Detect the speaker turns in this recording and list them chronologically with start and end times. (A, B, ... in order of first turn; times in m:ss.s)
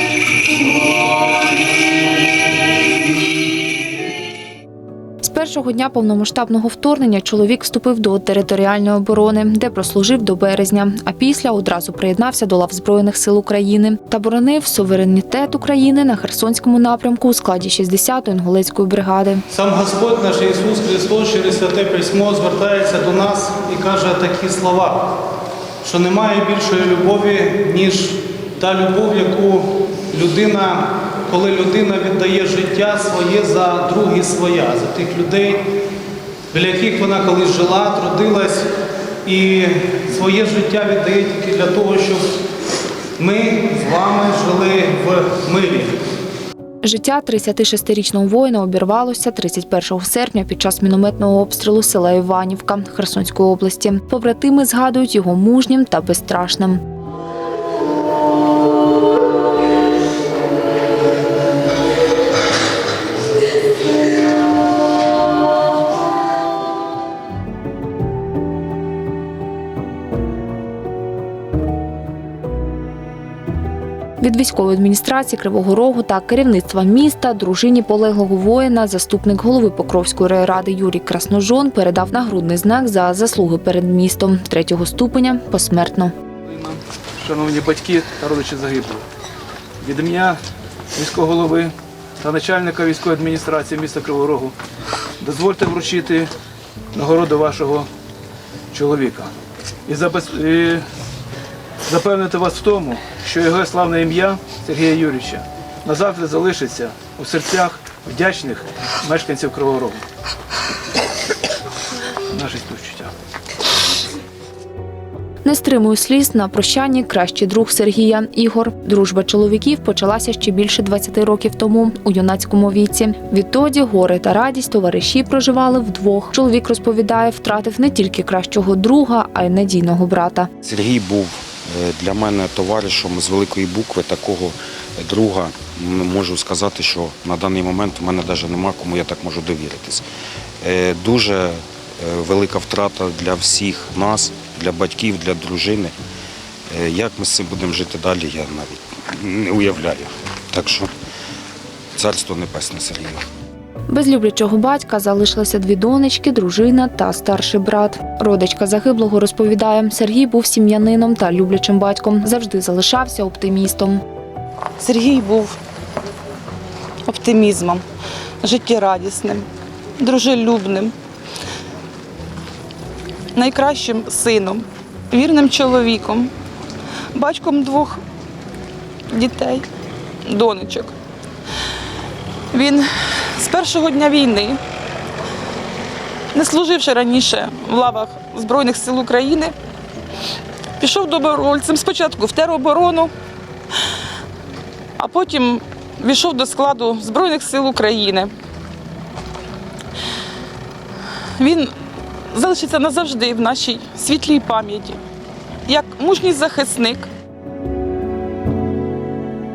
0:05.2-0:19.4 A
0:19.5-0:25.2 B
0:25.8-0:35.7 B
0:36.5-0:38.7 B
0:39.2-0:42.3 B
0:43.2-0:46.0 B
0:46.8-0:56.8 A
1:14.2-1:26.1 A
1:26.5-1:29.0 C
1:29.8-1:30.4 C
1:31.0-1:34.6 C
1:35.2-1:36.3 C
1:36.9-1:37.9 C
1:38.7-1:39.3 C
1:39.9-1:40.8 C
1:41.9-1:50.0 C
1:52.3-1:53.1 C
1:55.4-2:10.5 A
2:10.6-2:20.0 D
2:20.6-2:25.9 D
2:26.7-2:30.9 D
2:32.0-2:33.3 D
2:33.9-2:44.0 A
2:44.8-2:45.6 E
2:47.1-2:47.8 E
2:48.4-2:49.5 E
2:50.0-2:50.9 E
2:53.4-2:56.3 E
2:57.1-2:58.0 E
2:59.1-2:59.7 E
3:00.2-3:00.9 E
3:02.5-3:04.6 E
3:06.3-3:09.5 E
3:10.8-3:13.1 E
3:15.0-3:18.3 E
3:21.4-3:21.7 E
3:22.3-3:25.0 E
3:25.7-3:27.1 E